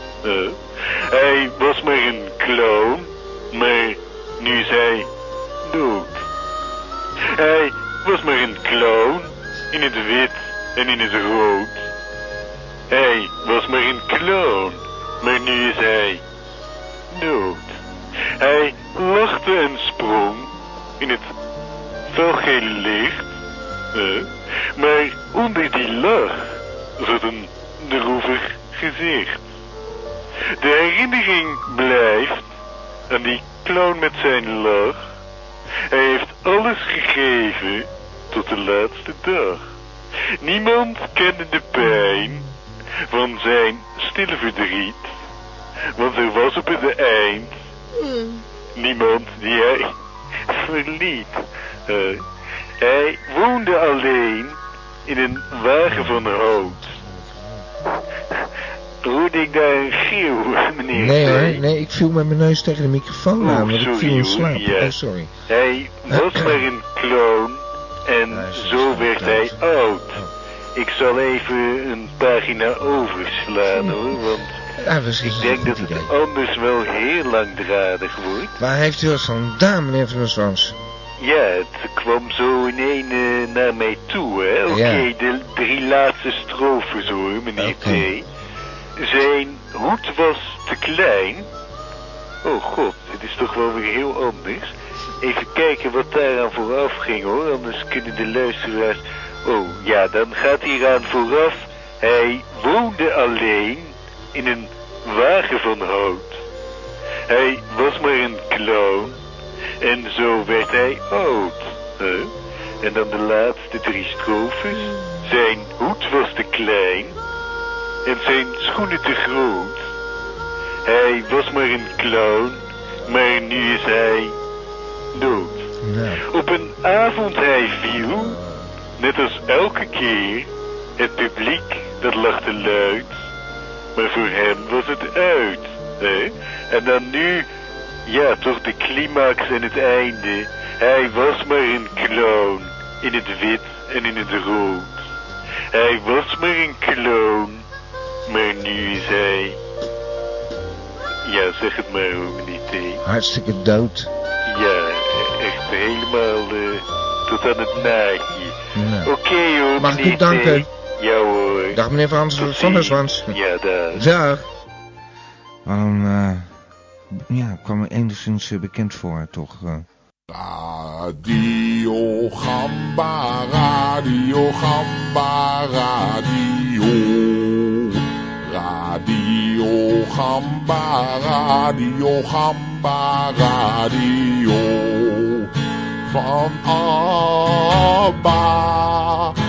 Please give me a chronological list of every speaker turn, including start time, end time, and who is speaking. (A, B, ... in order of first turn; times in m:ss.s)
0:00.2-0:05.1 A
0:05.6-0:06.2 A
0:07.3-0:11.9 A
0:12.9-0:16.2 A
0:17.1-0:17.6 A
0:18.4-0:21.3 A
0:22.1-0:23.3 A
0:23.9-0:29.4 A
0:30.6-0:32.5 A
0:33.1-0:35.0 A
0:35.9-0:39.6 A
0:40.4-0:42.5 A
0:43.1-0:45.1 A
0:46.0-0:47.6 A
0:48.1-0:48.4 B
0:48.8-0:49.9 A
0:50.5-0:52.2 A
0:52.8-0:56.9 A
0:56.0-0:56.3 B
0:57.0-0:57.6 B
0:59.0-1:01.6 A
1:00.9-1:05.3 B
1:03.4-1:05.0 A
1:05.5-1:10.2 A
1:06.1-1:06.6 B
1:08.3-1:09.6 B
1:10.8-1:14.6 A
1:14.8-1:16.1 B
1:15.2-1:18.6 A
1:18.6-1:20.8 B
1:21.2-1:28.3 A
1:24.7-1:25.1 B
1:27.6-1:28.1 B
1:29.0-1:31.5 A
1:32.4-1:46.4 A
1:47.3-1:49.2 A
1:49.8-1:57.2 A
1:58.1-1:59.8 A
2:00.8-2:04.4 A
2:05.1-2:05.7 A
2:05.8-2:06.2 B
2:06.3-2:08.4 A
2:08.2-2:08.7 B
2:09.0-2:13.2 A
2:14.0-2:17.5 A
2:18.1-2:24.9 A
2:25.7-2:27.6 A
2:28.3-2:29.6 A
2:31.2-2:33.0 A
2:33.0-2:34.1 B
2:34.5-2:41.8 A
2:38.8-2:39.1 B
2:39.8-2:40.7 B
2:41.7-2:43.4 B
2:42.4-2:44.0 A
2:43.9-2:44.4 B
2:45.7-2:46.5 B
2:47.3-2:49.9 B
2:50.3-3:05.5 C
3:06.1-3:09.4 C